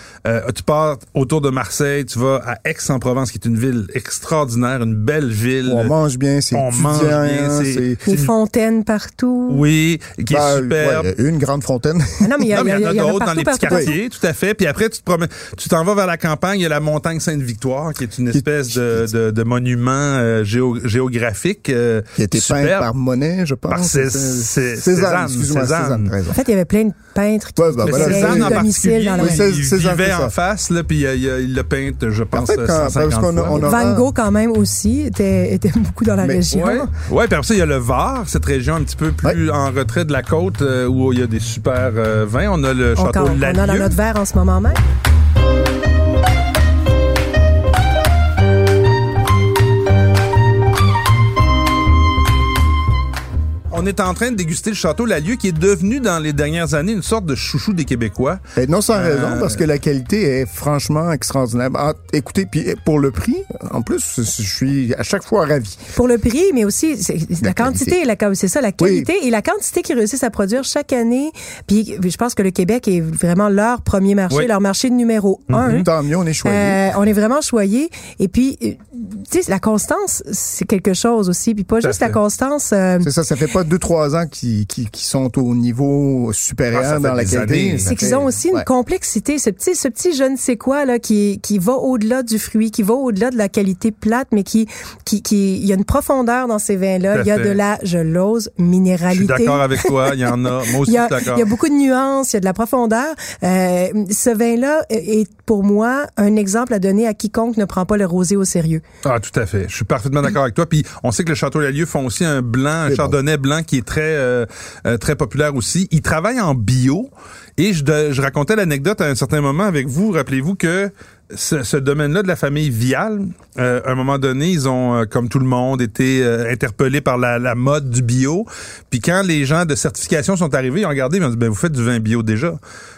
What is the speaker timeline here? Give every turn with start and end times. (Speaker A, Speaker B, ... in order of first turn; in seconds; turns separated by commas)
Speaker A: 0.2-5.9, Speaker B: 5.7-8.0, Speaker A: 6.5-8.3, Speaker C: 8.1-9.6, Speaker A: 9.5-11.1, Speaker B: 10.3-12.5, Speaker C: 12.2-14.0, Speaker A: 12.5-22.9, Speaker B: 18.3-19.1, Speaker B: 22.2-26.4, Speaker A: 23.7-26.1, Speaker C: 26.3-29.4, Speaker B: 27.6-30.3, Speaker A: 27.9-33.8, Speaker B: 32.3-34.1, Speaker C: 33.5-36.9, Speaker A: 36.5-43.9, Speaker C: 43.0-44.8, Speaker A: 53.7-58.4, Speaker B: 58.6-65.8, Speaker A: 58.9-59.6, Speaker C: 65.9-75.9, Speaker B: 67.4-68.0, Speaker B: 68.8-69.1, Speaker A: 75.5-75.9, Speaker B: 75.6-76.8, Speaker C: 76.4-83.1, Speaker A: 81.8-82.2, Speaker B: 83.0-88.7, Speaker A: 86.7-88.0, Speaker C: 87.9-108.8, Speaker A: 97.1-97.6, Speaker A: 99.1-101.5, Speaker A: 109.0-132.6, Speaker B: 112.9-113.2